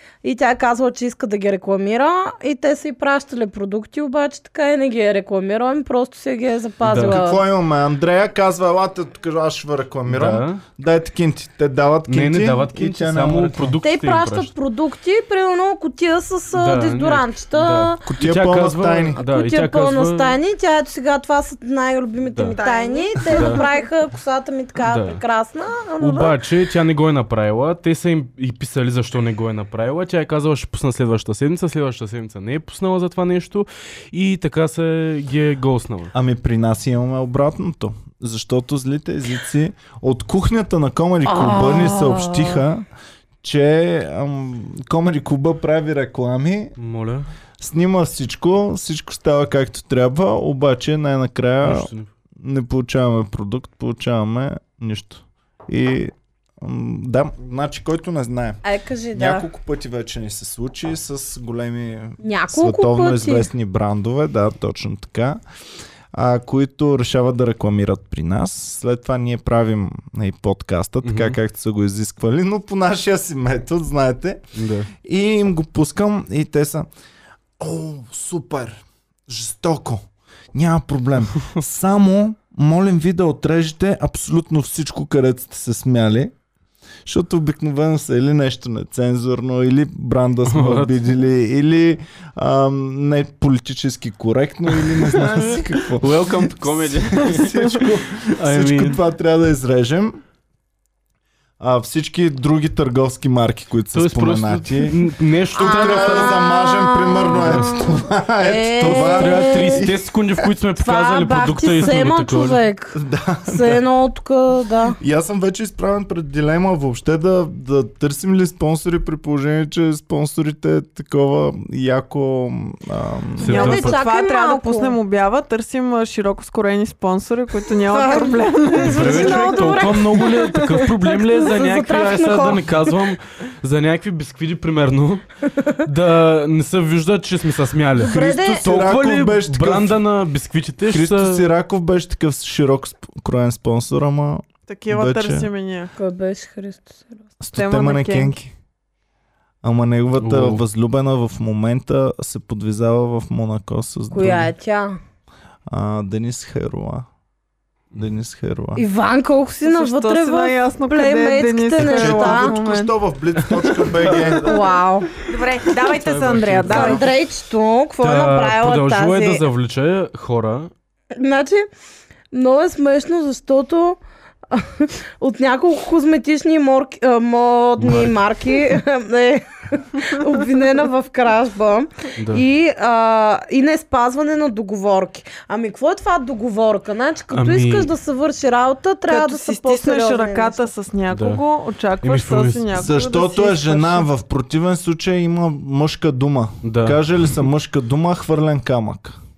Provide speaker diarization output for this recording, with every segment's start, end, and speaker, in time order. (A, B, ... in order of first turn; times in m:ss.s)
0:00.2-0:07.4 A
0:06.8-0:07.2 B
0:07.0-0:13.8 C
0:10.1-0:10.6 B
0:12.1-0:14.5 B
0:13.8-0:18.0 A
0:16.5-0:20.4 B
0:18.1-0:19.2 C
0:19.1-0:26.4 A
0:22.5-0:23.9 D
0:23.2-0:23.6 B
0:24.8-0:25.2 B
0:26.0-0:36.1 B
0:36.1-0:42.8 C
0:41.3-0:42.7 A
0:43.4-0:46.8 C
0:46.8-0:47.3 B
0:47.6-0:58.6 C
0:51.6-0:52.1 B
0:58.6-0:59.5 A
0:59.1-1:05.4 C
1:02.2-1:03.5 A
1:06.1-1:14.4 C
1:11.0-1:11.4 B
1:14.6-1:14.9 B
1:15.0-1:16.9 C
1:17.6-1:26.3 C
1:27.1-1:40.2 C
1:30.5-1:31.0 B
1:35.0-1:39.0 B
1:41.6-1:45.0 C
1:43.9-1:46.4 B
1:45.6-1:50.0 C
1:45.6-1:49.9 A
1:47.3-1:47.8 B
1:48.8-1:52.6 B
1:50.8-1:55.0 A
1:53.0-1:53.8 C
1:55.0-2:03.8 C
2:03.4-2:04.0 B
2:03.4-2:05.0 A
2:03.5-2:10.8 D
2:07.9-2:12.9 A
2:08.8-2:21.5 B
2:15.6-2:15.8 A
2:18.0-2:18.7 A
2:18.0-2:20.0 C
2:20.8-2:25.5 C
2:24.7-2:25.9 D
2:26.0-2:27.2 A
2:27.4-2:28.5 C
2:27.5-2:28.4 D
2:29.6-2:34.5 C
2:30.2-2:30.6 B
2:34.1-2:35.0 A
2:35.7-2:37.1 C
2:37.9-2:38.8 C
2:38.8-2:42.5 A
2:39.6-2:43.0 D
2:41.8-2:44.7 C
2:43.4-2:44.4 B
2:44.2-2:45.1 A
2:45.3-2:47.0 D
2:45.7-2:47.1 B
2:46.7-2:49.4 A
2:48.0-2:50.7 B
2:51.2-2:51.7 A
2:52.3-2:54.0 A
2:54.5-3:10.7 A
2:57.8-2:58.1 B
3:02.2-3:02.4 B
3:07.3-3:07.9 B
3:09.1-3:14.1 D
3:11.1-3:11.4 B
3:12.0-3:12.7 B
3:12.7-3:19.2 C
3:16.6-3:17.0 B